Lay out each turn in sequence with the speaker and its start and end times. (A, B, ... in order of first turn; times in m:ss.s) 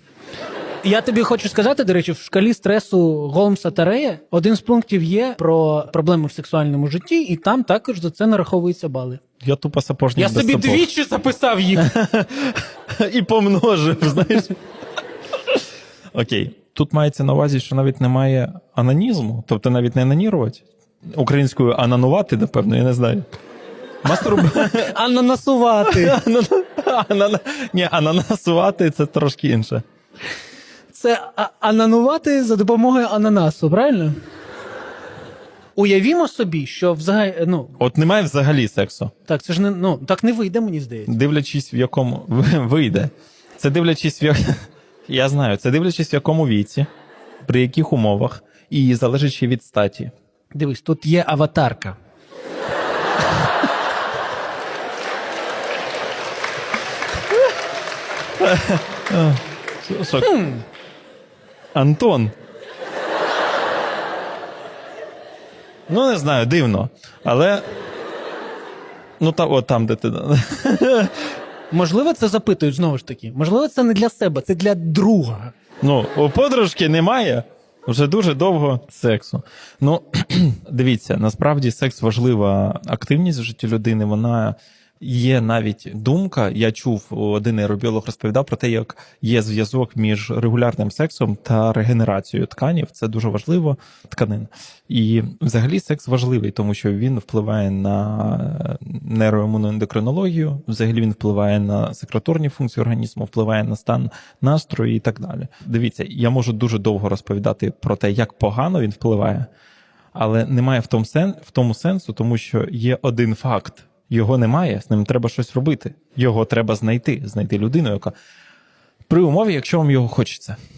0:00.8-0:09.2 A
0:09.4-0:10.8 B
0:10.2-0:11.9 A
0:11.8-0:14.6 B
0:16.1-0:23.3 B
0:24.0-0:24.9 B
0:24.1-0:26.2 A
0:25.8-0:29.8 B
0:30.9-0:34.2 A
0:35.8-0:37.8 A
0:37.8-0:39.1 B
0:39.3-0:41.1 A
0:41.1-0:46.9 B
0:47.4-0:50.1 B
0:50.5-0:52.0 A
0:58.4-1:00.3 B
1:00.3-1:00.6 A
1:01.8-1:02.3 B
1:05.9-1:07.6 B
1:09.2-1:11.2 B
1:11.7-1:15.5 A
1:15.8-1:49.5 B
1:50.1-1:58.1 B
1:59.1-2:00.6 B